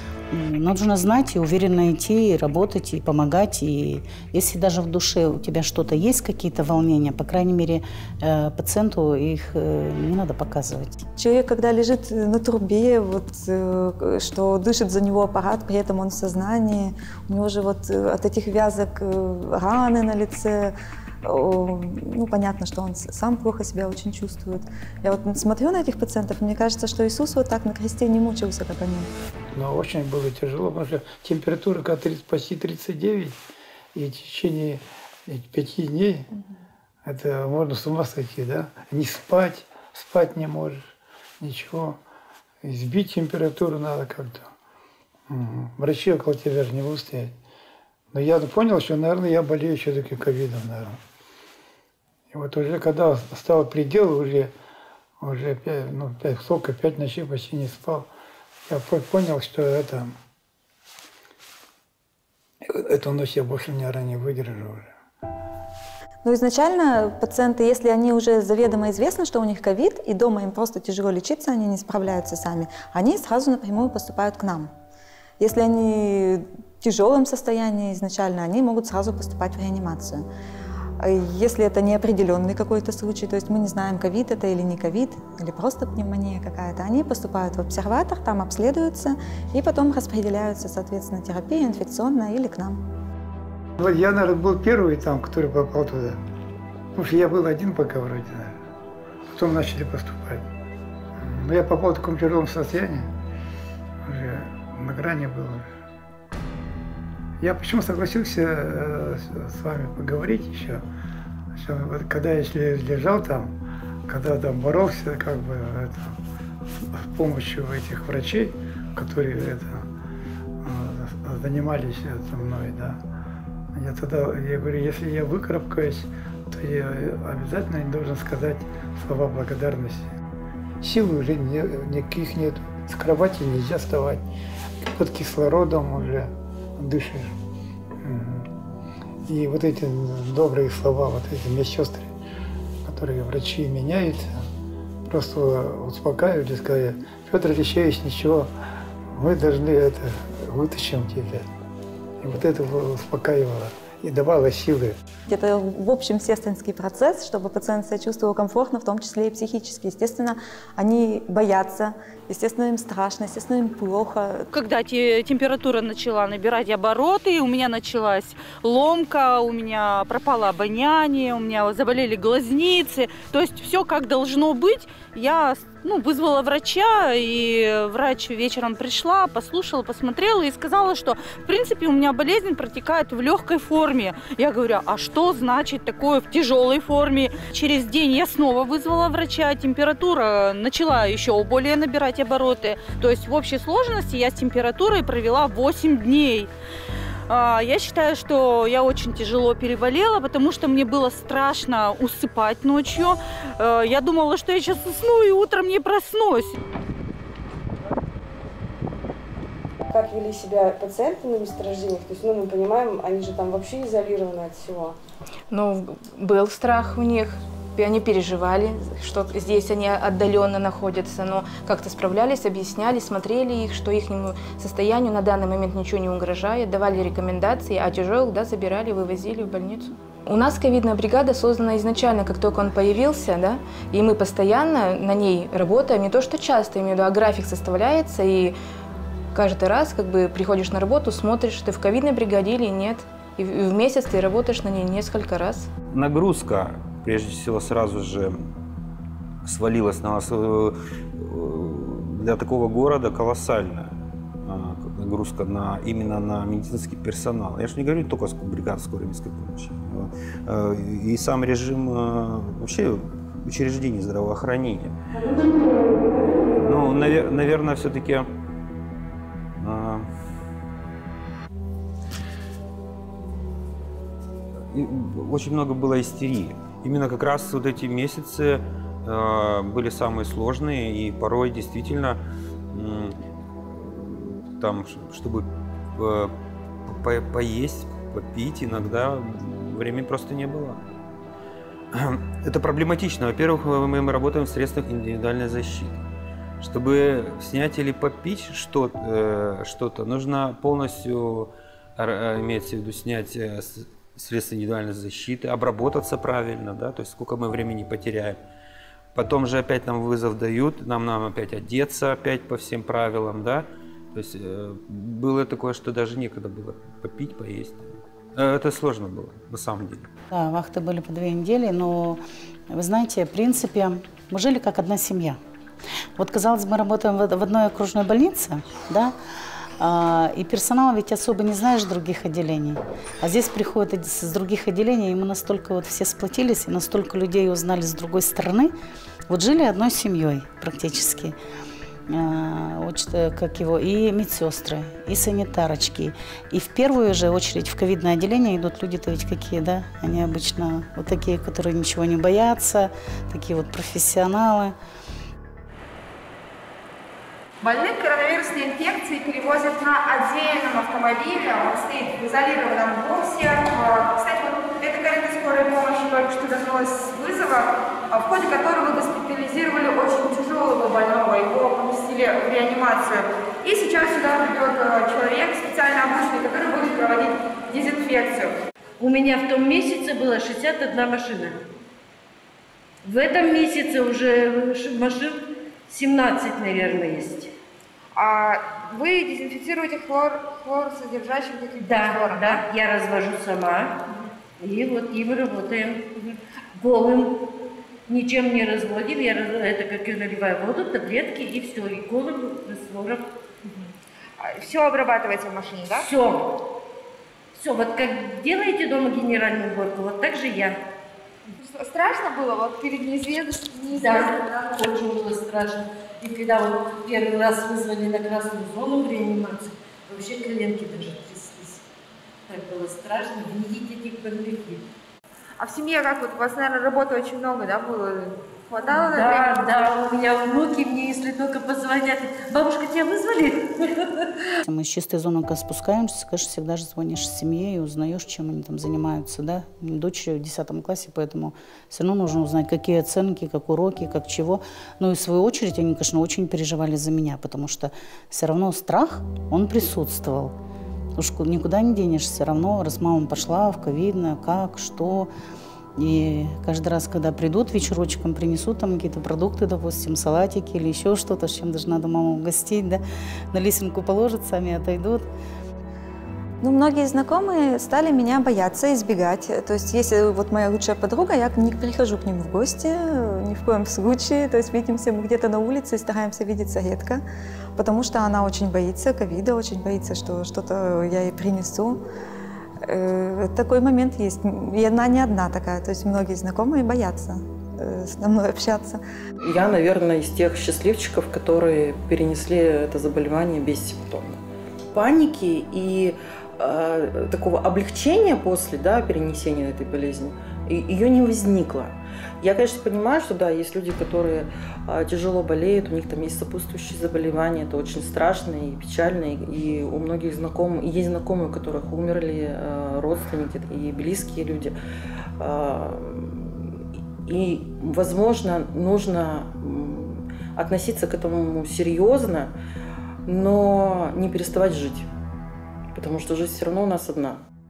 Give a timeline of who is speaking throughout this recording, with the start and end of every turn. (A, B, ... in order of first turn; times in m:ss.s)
0:00.3-0:11.0 A
0:11.2-0:29.1 B
0:29.5-0:33.4 C
0:33.9-0:36.3 C
0:37.0-0:42.0 C
0:42.6-0:44.5 C
0:45.3-0:47.4 C
0:48.1-0:51.0 C
0:52.3-0:54.5 C
0:55.2-0:58.1 C
0:58.7-1:00.2 C
1:02.6-1:04.9 C
1:06.2-1:14.7 B
1:15.4-1:20.3 B
1:21.0-1:32.8 B
1:33.8-1:36.2 C
1:37.0-1:38.6 C
1:39.3-1:40.4 C
1:41.2-1:43.1 C
1:44.0-1:45.7 C
1:47.4-1:50.8 C
1:51.5-1:53.5 C
1:54.1-1:56.2 C
1:56.9-1:59.9 C
2:00.6-2:03.0 C
2:03.7-2:10.1 C
2:10.8-2:14.2 C
2:14.8-2:17.4 C
2:18.0-2:18.5 C
2:19.2-2:22.1 C
2:22.8-2:24.4 C
2:25.0-2:28.5 C
2:29.1-2:31.5 C
2:32.2-2:35.0 C
2:35.3-2:44.5 B
2:44.5-3:16.5 D
3:17.3-3:26.6 D
3:29.9-3:35.0 E
3:35.5-3:58.6 F
3:59.3-4:05.7 F
4:05.9-4:08.4 G
4:09.4-4:25.4 G
4:26.5-4:28.3 G
4:29.6-4:30.1 G
4:34.7-4:42.2 G
4:42.7-4:43.2 G
4:43.7-4:46.3 G
4:46.9-4:50.8 G
4:51.9-4:56.0 G
4:56.6-5:08.4 G
5:09.2-5:20.1 G
5:20.3-5:25.4 A
5:26.2-5:29.2 A
5:29.8-5:38.7 A
5:39.3-5:41.4 A
5:42.1-5:54.8 A
5:57.6-6:18.5 H
6:19.0-6:21.6 I
6:23.0-6:27.5 I
6:28.1-6:32.6 H
6:31.8-6:34.0 I
6:34.6-6:37.4 I
6:38.1-6:43.2 I
6:44.4-6:46.1 H
6:46.0-6:46.5 I
6:47.5-6:50.8 I
6:51.6-6:54.7 H
6:53.9-7:01.8 I
7:02.5-7:04.8 I
7:05.6-7:09.6 H
7:08.8-7:14.3 I
7:14.6-7:30.6 A
7:31.2-7:35.3 A
7:36.0-7:45.3 A
7:46.6-7:57.2 B
7:57.8-8:02.0 B
8:02.8-8:09.0 B
8:09.4-8:14.4 J
8:14.9-8:34.8 J
8:35.4-8:42.5 J
8:43.3-8:45.1 J
8:45.9-8:47.4 J